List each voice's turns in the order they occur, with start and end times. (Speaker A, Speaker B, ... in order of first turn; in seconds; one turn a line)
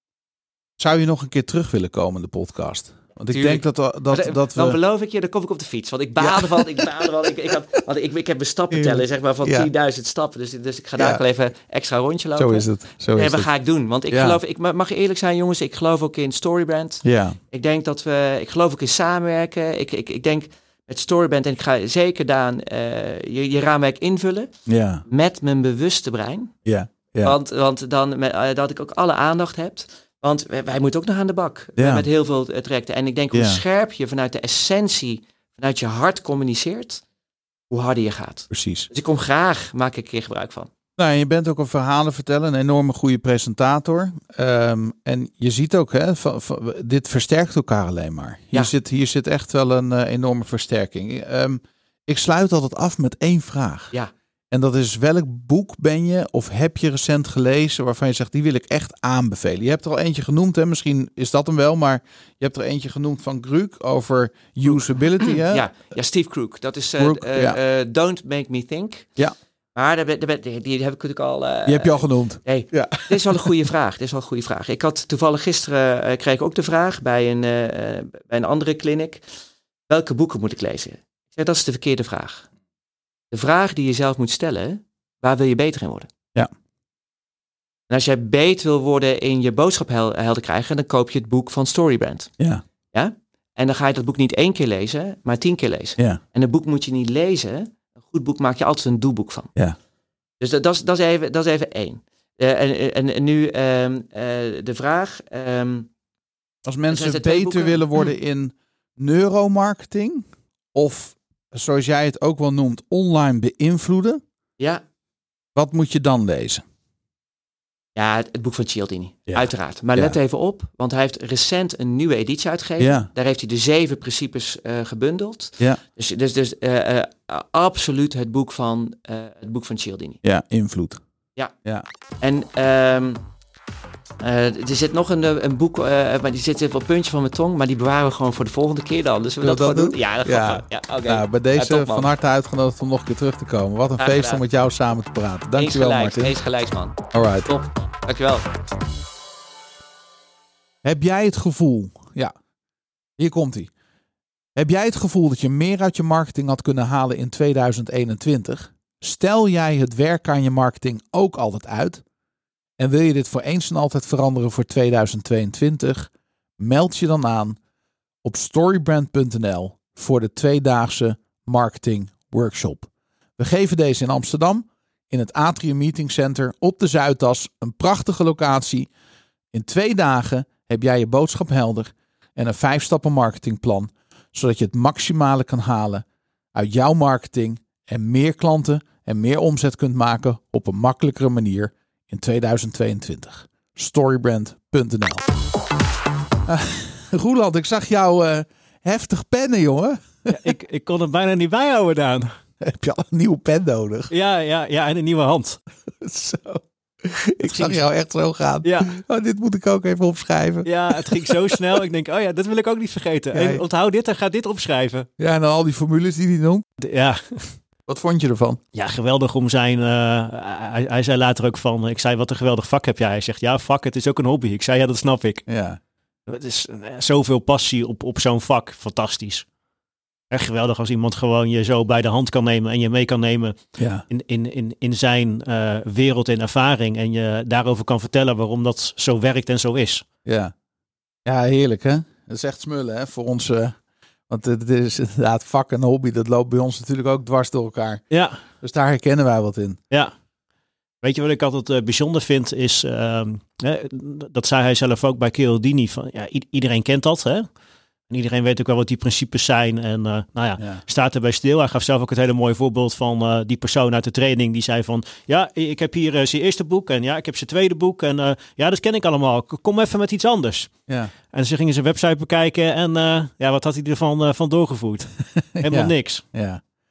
Speaker A: 0.8-4.8
Speaker B: 3.3-24.5
Speaker A: 6.2-6.9
Speaker A: 8.7-9.7
Speaker A: 12.4-13.5
Speaker A: 14.1-14.4
Speaker A: 17.0-17.4
Speaker A: 24.7-25.0
Speaker B: 25.1-26.6
Speaker A: 26.6-27.4
Speaker B: 27.2-37.0
Speaker A: 31.8-32.1
Speaker A: 33.3-33.6
Speaker B: 37.7-40.7
Speaker A: 38.5-38.9
Speaker A: 41.0-53.9
Speaker A: 54.5-65.7
Speaker B: 65.2-69.1
Speaker A: 67.0-67.6
Speaker B: 69.8-79.2
Speaker A: 71.7-73.5
Speaker B: 79.9-82.5
Speaker B: 83.3-86.1
Speaker B: 87.9-92.3
Speaker B: 92.9-99.5
Speaker B: 100.4-105.9
Speaker A: 106.7-114.2
Speaker B: 106.9-108.1
Speaker A: 115.5-116.6
Speaker B: 118.0-130.2
Speaker A: 119.3-120.2
Speaker A: 122.8-123.1
Speaker A: 130.2-131.0
Speaker B: 132.2-133.2
Speaker B: 134.2-142.1
Speaker A: 139.4-146.3
Speaker B: 144.0-144.4
Speaker B: 145.6-148.5
Speaker A: 147.1-147.5
Speaker A: 150.8-152.3
Speaker A: 153.2-153.7
Speaker A: 154.6-162.0
Speaker A: 162.8-167.6
Speaker A: 168.2-178.9
Speaker A: 179.5-195.2
Speaker A: 196.5-200.5
Speaker C: 200.3-202.3
Speaker A: 202.6-204.1
Speaker C: 204.1-205.6
Speaker A: 206.0-211.8
Speaker C: 207.4-207.8
Speaker C: 208.6-208.9
Speaker C: 210.6-215.1
Speaker A: 213.3-213.6
Speaker A: 215.2-216.7
Speaker C: 216.8-217.6
Speaker A: 217.9-218.6
Speaker C: 218.7-225.4
Speaker A: 225.5-225.8
Speaker C: 226.3-229.5
Speaker C: 230.3-233.6
Speaker A: 233.8-234.1
Speaker C: 234.1-240.1
Speaker A: 240.2-240.5
Speaker A: 241.2-243.8
Speaker A: 244.3-248.0
Speaker C: 248.1-248.4
Speaker A: 248.6-249.8
Speaker C: 251.0-257.5
Speaker C: 258.1-270.7
Speaker C: 271.3-275.1
Speaker A: 275.5-276.6
Speaker C: 275.6-276.2